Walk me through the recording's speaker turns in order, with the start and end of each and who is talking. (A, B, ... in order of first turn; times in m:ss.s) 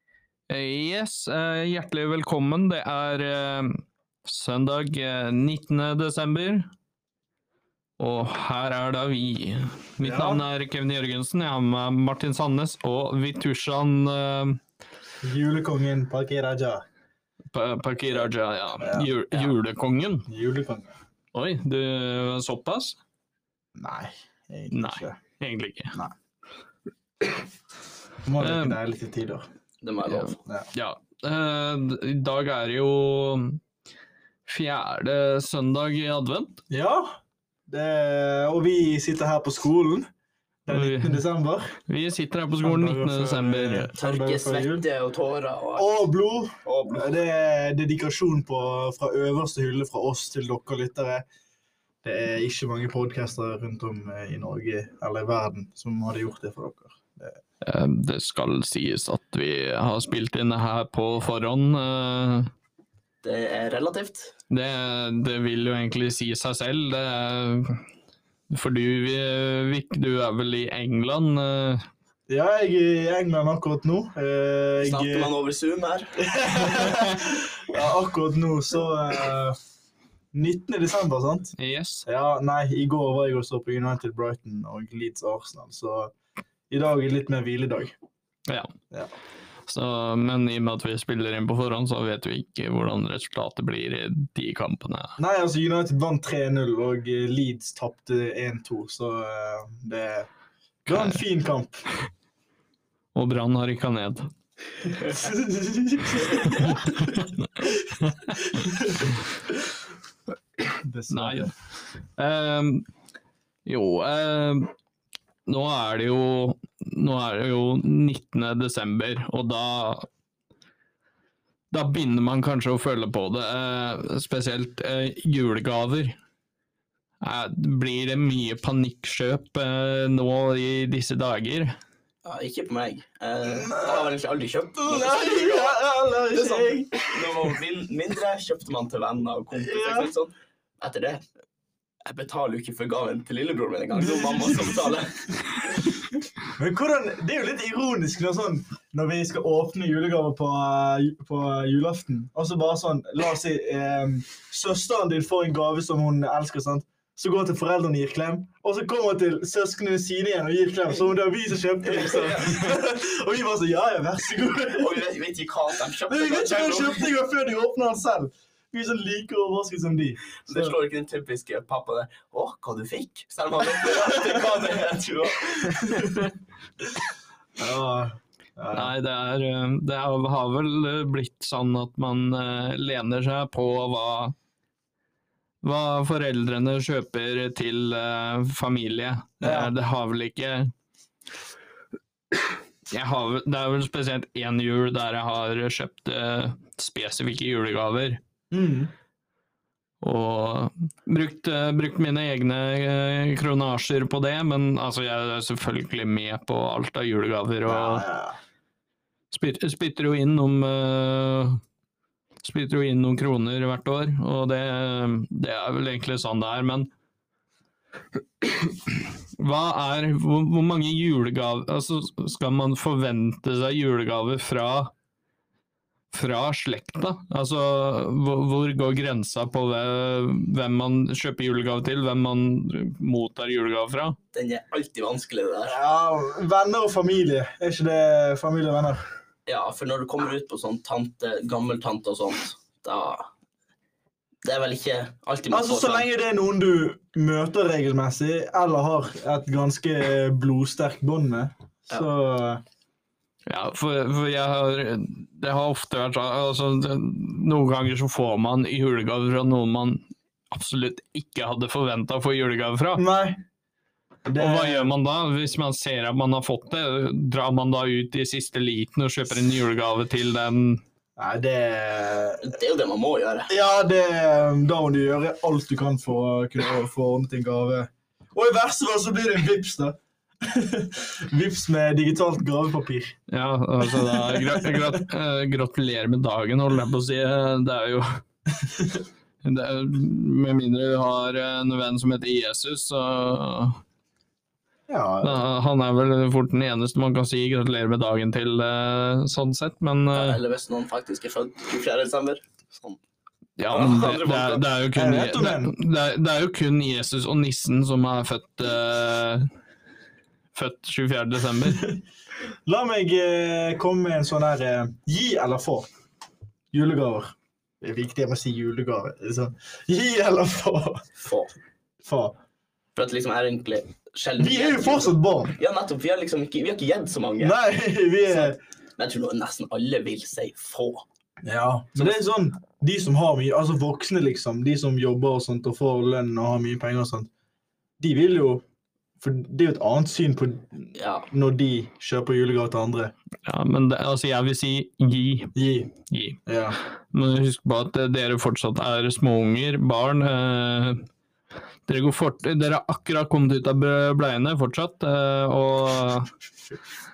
0:00.5-0:06.7 A
0:08.0-0:14.6 A
0:10.0-0:10.4 B
0:15.2-0:16.9 B
0:17.5-0:20.3 A
0:18.8-0:19.5 B
0:20.3-0:21.0 B
0:21.3-0:23.0 A
0:23.8-0:25.2 B
0:24.7-0:26.0 A
0:28.2-0:29.5 B
0:28.4-0:28.8 A
0:29.8-0:30.4 C
0:30.1-0:33.6 A
0:34.4-0:36.6 A
0:36.7-0:40.1 B
0:40.7-0:41.8 B
0:40.7-0:41.2 A
0:41.9-0:43.9 A
0:42.6-0:44.9 B
0:44.0-0:45.9 C
0:45.8-0:51.2 B
0:46.6-0:47.2 C
0:52.0-0:57.4 B
0:57.6-1:02.5 A
1:03.2-1:04.3 C
1:04.5-1:07.8 A
1:08.5-1:11.9 A
1:12.3-1:15.3 B
1:14.8-1:16.2 C
1:16.2-1:19.6 B
1:20.3-1:26.1 B
1:21.6-1:22.0 A
1:26.7-1:28.0 B
1:28.5-1:28.7 A
1:29.7-1:35.2 A
1:35.2-1:40.3 B
1:40.8-1:41.8 B
1:40.9-1:41.2 A
1:43.1-1:44.3 A
1:45.0-1:47.7 B
1:46.4-1:48.4 A
1:48.4-1:49.1 B
1:50.8-1:51.5 B
1:51.1-1:51.5 A
1:52.2-1:52.9 A
1:53.6-1:54.7 A
1:55.4-2:00.1 A
2:01.7-2:06.2 A
2:07.2-2:11.8 A
2:12.2-2:21.2 C
2:13.5-2:14.1 B
2:14.8-2:17.6 B
2:19.6-2:20.1 B
2:22.0-2:25.8 C
2:24.0-2:25.0 B
2:26.6-2:45.0 B
2:41.8-2:42.7 C
2:44.7-2:47.1 C
2:46.1-2:50.8 B
2:50.5-2:56.2 C
2:55.8-2:56.2 B
2:57.6-2:58.9 B
2:58.7-3:04.3 A
3:05.6-3:10.7 A
3:09.4-3:09.7 B
3:12.9-3:18.2 A
3:18.5-3:18.9 B
3:20.0-3:28.0 A
3:27.6-3:28.4 B
3:29.3-3:31.6 A
3:32.4-3:36.9 A
3:38.4-3:44.9 A
3:46.1-3:54.2 A
3:54.3-3:55.8 C
3:55.7-3:59.1 B
3:59.4-4:03.3 C
4:04.4-4:06.1 C
4:05.5-4:12.6 B
4:13.5-4:23.0 A
4:23.0-4:23.4 B
4:24.2-4:24.9 B
4:24.4-4:30.8 A
4:31.2-4:32.5 B
4:32.4-4:33.5 C
4:33.5-4:43.2 B
4:43.3-4:48.2 A
4:43.8-4:45.0 B
4:49.4-4:53.8 A
4:54.9-4:55.4 B
4:55.2-5:00.4 A
5:00.1-5:03.0 C
5:03.6-5:09.5 A
5:03.7-5:04.7 C
5:04.9-5:05.8 B
5:10.6-5:11.9 A
5:11.7-5:12.0 B
5:12.7-5:15.9 B
5:16.7-5:21.1 B
5:21.2-5:21.5 C
5:22.0-5:22.4 B
5:23.0-5:27.6 C
5:24.4-5:25.6 B
5:27.4-5:28.6 B
5:28.3-5:31.0 C
5:31.4-5:37.3 B
5:38.0-5:38.6 B
5:39.2-5:43.1 B
5:40.9-5:41.3 C
5:43.4-5:46.4 A
5:45.6-5:45.9 B
5:46.4-5:46.8 B
5:47.1-5:51.0 A
5:51.9-5:56.3 A